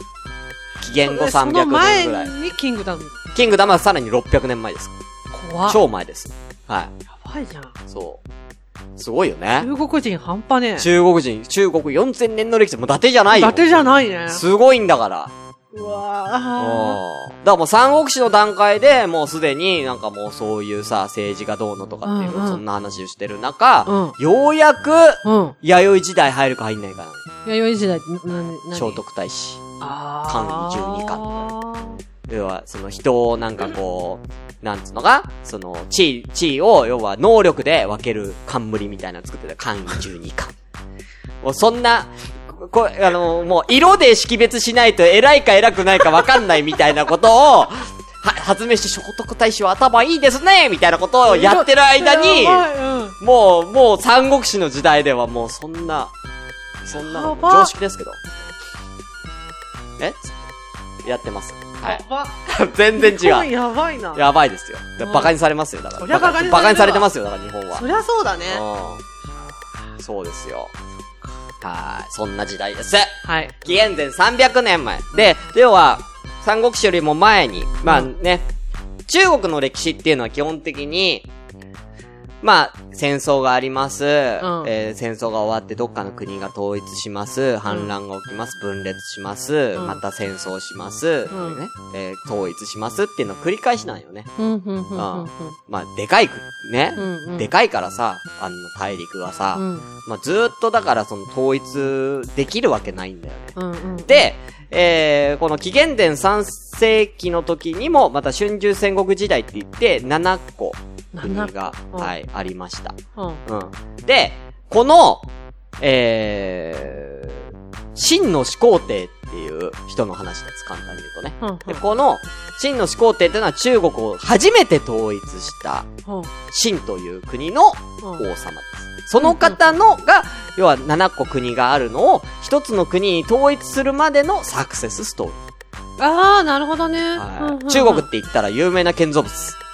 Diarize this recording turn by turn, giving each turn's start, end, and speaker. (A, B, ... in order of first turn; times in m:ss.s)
0:00.8-0:02.3 A
0:01.0-0:03.3 B
0:03.3-0:05.0 A
0:05.3-0:05.8 B
0:05.7-0:06.9 A
0:07.1-0:07.7 B
0:07.9-0:08.2 A
0:09.0-0:09.7 A
0:09.6-0:10.9 B
0:10.8-0:15.3 A
0:13.3-0:14.4 B
0:15.7-0:17.0 B
0:16.6-0:27.2 A
0:22.0-0:22.6 B
0:23.8-0:24.2 B
0:25.2-0:25.6 B
0:27.4-0:29.0 B
0:28.7-0:29.7 A
0:29.8-0:32.0 B
0:30.3-0:31.5 A
0:32.3-0:40.5 A
0:41.4-0:52.7 A
0:51.3-0:53.2 B
0:53.2-0:56.1 A
0:56.8-0:58.2 A
0:57.0-0:57.7 B
1:00.0-1:00.4 A
1:01.0-1:03.5 A
1:01.8-1:02.4 B
1:02.9-1:04.2 B
1:04.1-1:07.8 A
1:05.0-1:05.3 B
1:06.0-1:07.1 B
1:07.7-1:08.6 B
1:08.5-1:09.0 A
1:10.0-1:10.7 A
1:11.6-1:18.5 A
1:13.2-1:13.7 B
1:17.8-1:18.1 B
1:19.1-1:21.3 A
1:22.4-1:34.3 A
1:24.4-1:24.7 B
1:31.3-1:31.6 B
1:34.4-1:35.6 B
1:34.9-1:43.5 A
1:37.0-1:37.5 B
1:39.5-1:39.9 B
1:43.6-1:44.3 B
1:44.1-1:55.3 A
1:51.1-1:52.1 B
1:53.2-1:53.4 B
1:55.8-1:57.4 A
1:57.9-2:05.9 A
2:01.4-2:01.8 B
2:06.0-2:06.3 B
2:06.5-2:15.4 A
2:09.2-2:09.7 B
2:16.0-2:18.0 B
2:17.2-2:19.6 A